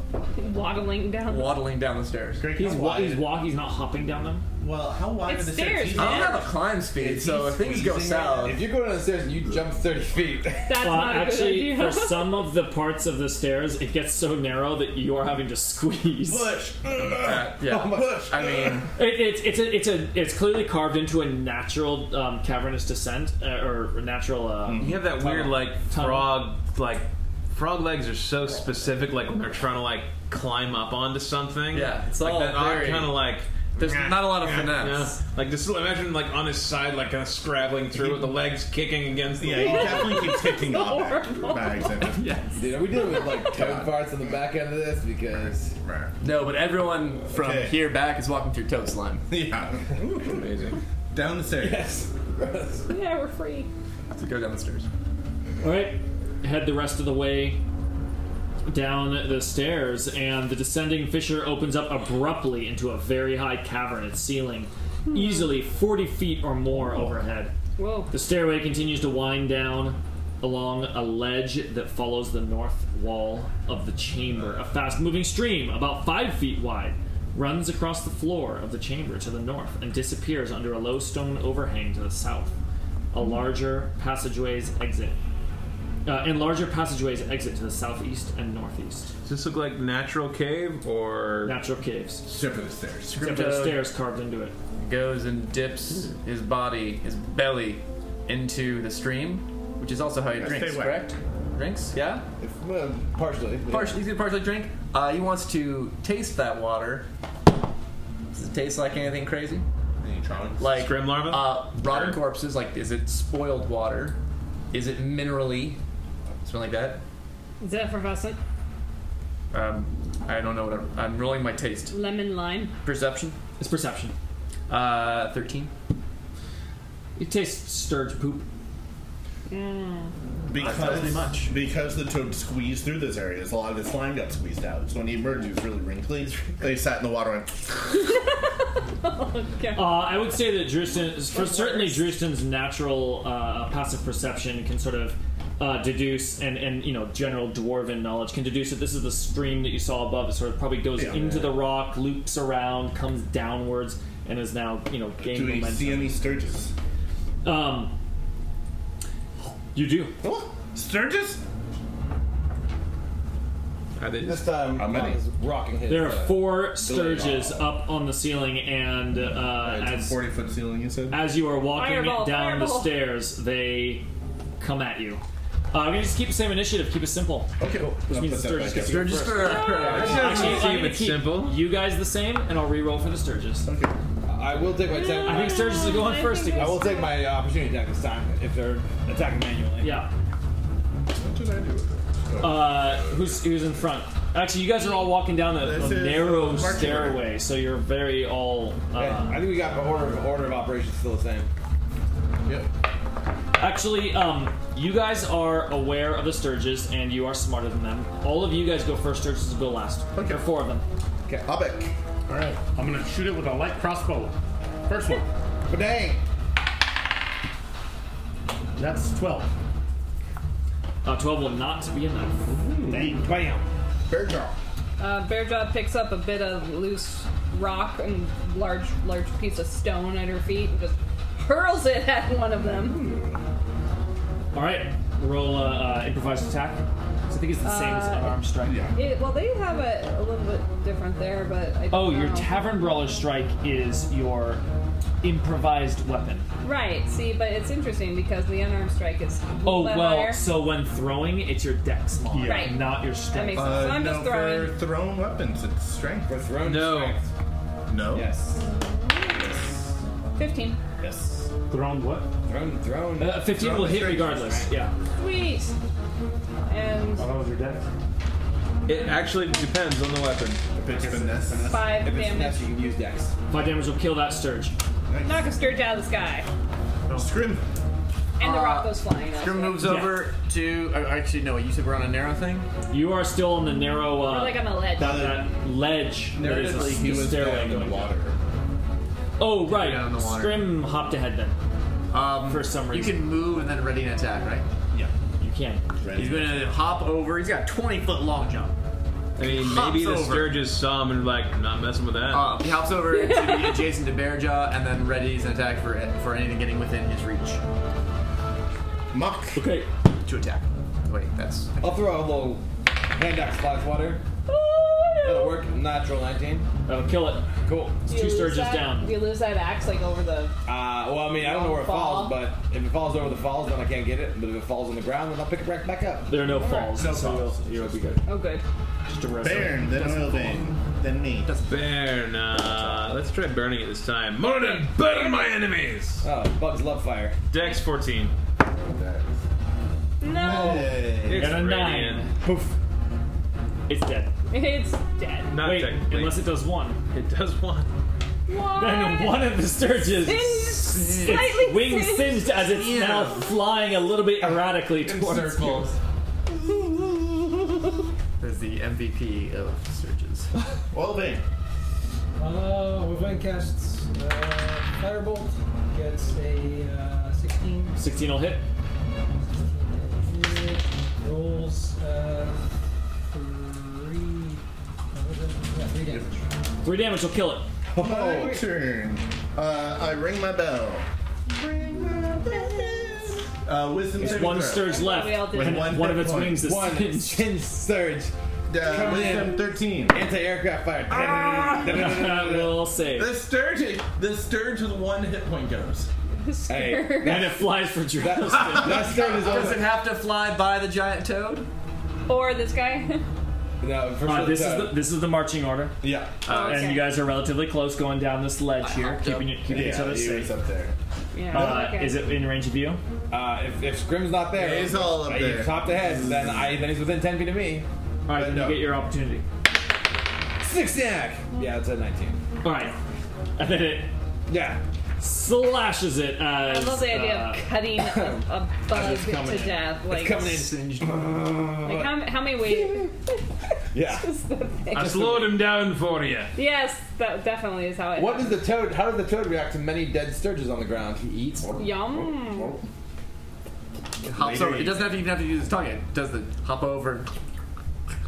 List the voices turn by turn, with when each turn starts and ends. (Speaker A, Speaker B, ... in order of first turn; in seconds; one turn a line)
Speaker A: 0.3-1.6
Speaker B: 1.2-2.5
Speaker C: 2.4-3.2
Speaker D: 2.5-4.5
Speaker C: 4.6-6.5
Speaker A: 5.2-6.4
Speaker B: 5.9-8.7
Speaker E: 7.0-10.7
Speaker A: 10.7-12.4
Speaker D: 10.8-16.5
Speaker C: 16.2-18.9
Speaker B: 17.2-18.9
Speaker D: 18.9-24.9
Speaker C: 24.6-25.1
Speaker F: 24.8-40.2
Speaker D: 25.9-26.4
Speaker B: 31.7-35.2
Speaker C: 37.9-38.3
Speaker C: 39.4-42.3
Speaker A: 39.5-42.0
Speaker B: 42.0-42.8
Speaker E: 42.5-45.7
Speaker C: 43.2-44.2
Speaker C: 45.8-46.1
Speaker B: 46.2-49.2
Speaker C: 47.3-47.8
Speaker C: 49.3-50.5
Speaker F: 50.2-50.8
Speaker C: 51.1-51.9
Speaker E: 51.6-52.9
Speaker A: 52.9-53.7
Speaker B: 54.1-54.9
Speaker D: 55.6-57.6
Speaker D: 58.7-67.5
Speaker A: 65.1-65.5
Speaker A: 67.8-68.1
Speaker D: 68.1-82.5
Speaker D: 83.1-85.2
Speaker D: 86.0-89.1
Speaker F: 89.2-91.5
Speaker D: 91.4-92.2
Speaker C: 92.2-93.2
Speaker B: 93.1-93.8
Speaker D: 93.2-94.5
Speaker B: 94.8-102.2
Speaker C: 100.3-101.1
Speaker E: 102.4-104.0
Speaker B: 103.7-107.0
Speaker B: 108.3-109.6
Speaker C: 110.0-110.8
Speaker B: 110.6-114.2
Speaker F: 110.7-112.2
Speaker B: 114.7-115.8
Speaker B: 116.4-117.0
Speaker A: 117.6-118.4
Speaker B: 119.5-122.0
Speaker A: 121.9-122.7
Speaker B: 122.8-123.4
Speaker D: 123.6-124.1
Speaker B: 124.7-125.7
Speaker D: 127.2-128.4
Speaker A: 129.5-130.1
Speaker C: 130.5-138.0
Speaker B: 130.5-131.5
Speaker A: 137.9-140.0
Speaker D: 139.7-156.2
Speaker A: 141.3-142.1
Speaker C: 150.9-151.6
Speaker C: 155.2-156.7
Speaker D: 157.4-157.9
Speaker D: 159.7-160.1
Speaker C: 160.2-161.4
Speaker F: 164.0-164.5
Speaker E: 164.2-167.6
Speaker C: 164.8-165.2
Speaker D: 165.9-170.2
Speaker C: 169.4-171.2
Speaker D: 171.1-174.1
Speaker A: 171.7-172.9
Speaker D: 174.6-183.7
Speaker C: 177.6-179.6
Speaker B: 178.7-180.6
Speaker A: 179.4-180.3
Speaker F: 179.9-181.6
Speaker E: 179.9-180.2
Speaker C: 183.6-183.9
Speaker E: 184.2-185.9
Speaker A: 184.8-187.2
Speaker D: 185.1-186.9
Speaker E: 186.5-190.0
Speaker D: 189.8-190.1
Speaker C: 191.1-193.4
Speaker D: 192.4-199.4
Speaker C: 195.5-197.3
Speaker E: 198.9-201.5
Speaker D: 203.6-210.8
Speaker C: 210.1-210.4
Speaker C: 211.4-212.6
Speaker G: 212.7-214.3
Speaker G: 214.9-215.3
Speaker C: 215.7-216.2
Speaker G: 218.8-219.5
Speaker D: 221.0-222.5
Speaker C: 222.5-223.2
Speaker G: 222.9-223.2
Speaker E: 222.9-223.7
Speaker C: 224.1-224.5
Speaker A: 225.0-233.2
Speaker C: 232.5-233.4
Speaker D: 234.5-238.9
Speaker A: 237.6-238.4
Speaker C: 238.6-239.0
Speaker A: 238.9-242.7
Speaker D: 241.9-244.6
Speaker D: 245.2-246.4
Speaker A: 246.6-250.4
Speaker D: 249.6-253.9
Speaker G: 252.3-252.8
Speaker A: 252.4-254.8
Speaker C: 253.5-256.4
Speaker E: 256.3-257.2
Speaker F: 256.6-257.2
Speaker C: 257.9-258.3
Speaker E: 258.1-258.6
Speaker A: 258.6-259.6
Speaker A: 260.4-260.8
Speaker E: 261.0-261.5
Speaker G: 261.7-262.3
Speaker E: 262.4-264.6
Speaker D: 263.2-264.9
Speaker C: 263.5-264.6
Speaker A: 265.1-265.7
Speaker A: 266.6-267.3
Speaker G: 267.1-267.9
Speaker F: 268.9-270.6
Speaker C: 270.8-271.9
Speaker G: 270.9-271.7
Speaker A: 271.7-272.8
Speaker E: 271.7-273.3
Speaker D: 273.5-274.7
Speaker C: 275.1-275.6
Speaker A: 275.2-276.5
Speaker C: 277.1-277.6
Speaker A: 278.4-279.9
Speaker B: 278.4-282.7
Speaker D: 279.8-280.2
Speaker D: 282.9-288.1
Speaker A: 284.2-285.3
Speaker C: 285.0-285.5
Speaker C: 286.3-288.4
Speaker D: 289.4-291.6
Speaker B: 289.6-290.7
Speaker B: 292.1-294.6
Speaker D: 292.4-293.3
Speaker D: 295.4-295.8
Speaker C: 296.0-296.7
Speaker B: 296.1-298.7
Speaker F: 299.4-302.6
Speaker B: 299.4-300.6
Speaker B: 302.3-307.6
Speaker A: 303.1-303.9
Speaker C: 309.1-309.6
Speaker D: 309.5-309.9
Speaker B: 310.2-312.3
Speaker E: 311.8-314.2
Speaker A: 314.5-315.6
Speaker E: 315.2-316.7
Speaker D: 316.9-317.5
Speaker E: 317.6-318.0
Speaker A: 318.1-320.5
Speaker D: 318.1-319.2
Speaker E: 320.6-326.4
Speaker A: 321.3-322.4
Speaker D: 326.3-328.2
Speaker A: 326.5-326.9
Speaker C: 326.7-328.2
Speaker A: 328.2-328.6
Speaker D: 329.1-330.6
Speaker C: 329.4-331.5
Speaker B: 331.4-333.1
Speaker F: 331.7-336.3
Speaker A: 334.6-334.8
Speaker E: 336.2-337.4
Speaker F: 337.5-338.3
Speaker C: 338.8-339.4
Speaker A: 340.2-341.1
Speaker C: 340.2-341.6
Speaker F: 341.1-342.3
Speaker D: 341.3-342.3
Speaker D: 343.9-344.3
Speaker A: 344.5-345.6
Speaker F: 345.5-346.4
Speaker D: 345.6-347.0
Speaker F: 347.1-347.9
Speaker A: 348.5-349.6
Speaker D: 348.7-355.9
Speaker A: 350.1-352.6
Speaker B: 350.9-351.5
Speaker B: 352.5-353.5
Speaker C: 354.4-356.0
Speaker C: 356.6-357.8
Speaker B: 358.4-360.5
Speaker C: 360.9-361.4
Speaker H: 362.4-368.1
Speaker D: 368.0-368.6
Speaker H: 369.4-372.6
Speaker H: 373.2-374.6
Speaker H: 375.1-376.4
Speaker D: 376.8-377.7
Speaker E: 377.9-378.6
Speaker C: 377.9-386.7
Speaker D: 384.2-387.5
Speaker A: 384.2-386.0
Speaker E: 386.4-392.6
Speaker C: 388.7-390.2
Speaker C: 391.1-396.1
Speaker D: 391.4-393.4
Speaker A: 396.4-397.5
Speaker E: 396.7-399.9
Speaker D: 397.2-399.1
Speaker B: 399.0-401.7
Speaker A: 402.3-403.2
Speaker E: 403.8-405.0
Speaker D: 404.2-405.9
Speaker C: 406.0-406.4
Speaker B: 406.4-406.9
Speaker A: 406.5-407.1
Speaker D: 406.5-410.5
Speaker B: 408.8-409.6
Speaker C: 409.7-410.9
Speaker A: 411.3-412.2
Speaker C: 411.5-411.8
Speaker D: 411.5-413.0
Speaker E: 413.3-417.9
Speaker C: 414.5-416.5
Speaker D: 418.3-419.4
Speaker C: 418.3-418.9
Speaker E: 420.6-422.4
Speaker D: 422.6-422.9
Speaker D: 423.6-424.1
Speaker E: 424.5-424.8
Speaker D: 425.2-427.7
Speaker A: 426.6-430.5
Speaker E: 428.0-428.5
Speaker D: 428.9-429.8
Speaker E: 430.1-432.6
Speaker B: 430.3-431.4
Speaker A: 431.8-433.3
Speaker E: 433.9-434.4
Speaker A: 434.0-435.5
Speaker F: 434.9-436.5
Speaker A: 436.5-438.7
Speaker E: 438.1-441.3
Speaker B: 441.2-441.7
Speaker C: 441.6-442.8
Speaker A: 441.7-442.8
Speaker B: 444.2-447.3
Speaker C: 444.3-445.2